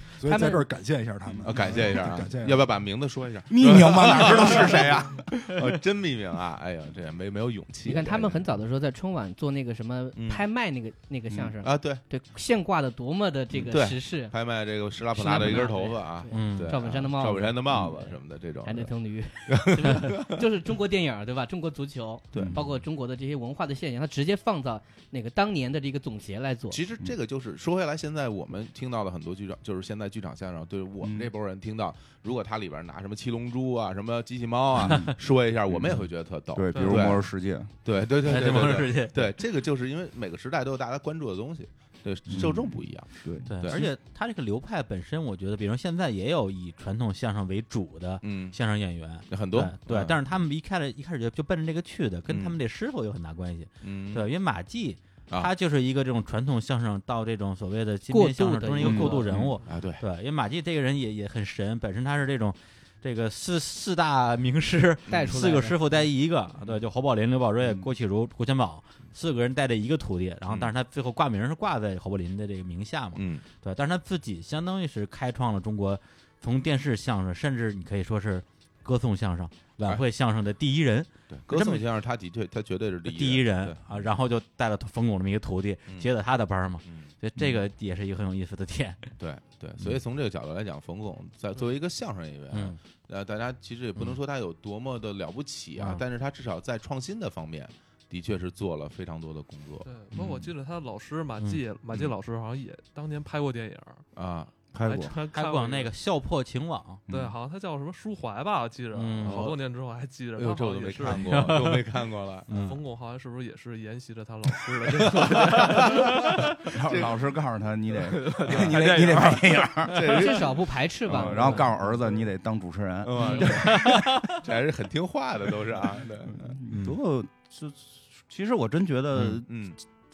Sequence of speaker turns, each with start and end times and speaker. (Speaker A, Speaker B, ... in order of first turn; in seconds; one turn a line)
Speaker A: 0.2-2.7
Speaker B: 0.2-0.7
Speaker C: 1.4-8.5
Speaker D: 3.5-5.3
Speaker A: 4.1-4.6
Speaker B: 7.8-14.3
Speaker C: 10.2-10.4
Speaker C: 11.6-12.0
Speaker C: 13.6-18.9
Speaker B: 15.1-26.8
Speaker E: 16.3-16.8
Speaker C: 19.5-20.3
Speaker C: 22.3-22.7
Speaker D: 22.3-22.6
Speaker C: 26.7-37.2
Speaker D: 31.0-31.3
Speaker D: 34.8-35.1
Speaker D: 35.7-37.7
Speaker F: 36.7-37.1
Speaker C: 37.8-43.9
Speaker E: 38.2-39.3
Speaker D: 42.3-43.8
Speaker E: 43.5-81.8
Speaker C: 48.2-48.6
Speaker C: 49.3-50.2
Speaker C: 52.3-52.5
Speaker C: 53.8-54.2
Speaker B: 58.1-59.3
Speaker D: 58.8-59.5
Speaker C: 59.6-60.0
Speaker C: 65.1-65.5
Speaker B: 65.1-65.8
Speaker C: 73.1-73.4
Speaker C: 81.3-84.0
Speaker E: 83.0-89.0
Speaker C: 86.8-87.1
Speaker C: 89.2-100.3
Speaker E: 92.5-92.8
Speaker E: 95.8-96.0
Speaker F: 99.8-104.0
Speaker C: 104.2-104.5
Speaker D: 104.7-105.1
Speaker F: 104.8-105.9
Speaker E: 105.2-107.0
Speaker F: 107.1-111.5
Speaker E: 108.9-109.5
Speaker C: 109.2-109.6
Speaker C: 110.3-112.5
Speaker E: 111.1-111.8
Speaker E: 112.5-112.8
Speaker F: 112.5-116.8
Speaker C: 115.0-117.2
Speaker D: 116.6-120.0
Speaker F: 117.9-120.3
Speaker C: 118.4-118.9
Speaker C: 119.8-121.3
Speaker B: 120.0-121.7
Speaker D: 121.0-124.3
Speaker C: 123.0-126.5
Speaker B: 123.2-123.6
Speaker F: 123.3-124.0
Speaker D: 126.3-129.7
Speaker E: 126.7-127.0
Speaker E: 129.1-129.4
Speaker C: 129.5-129.8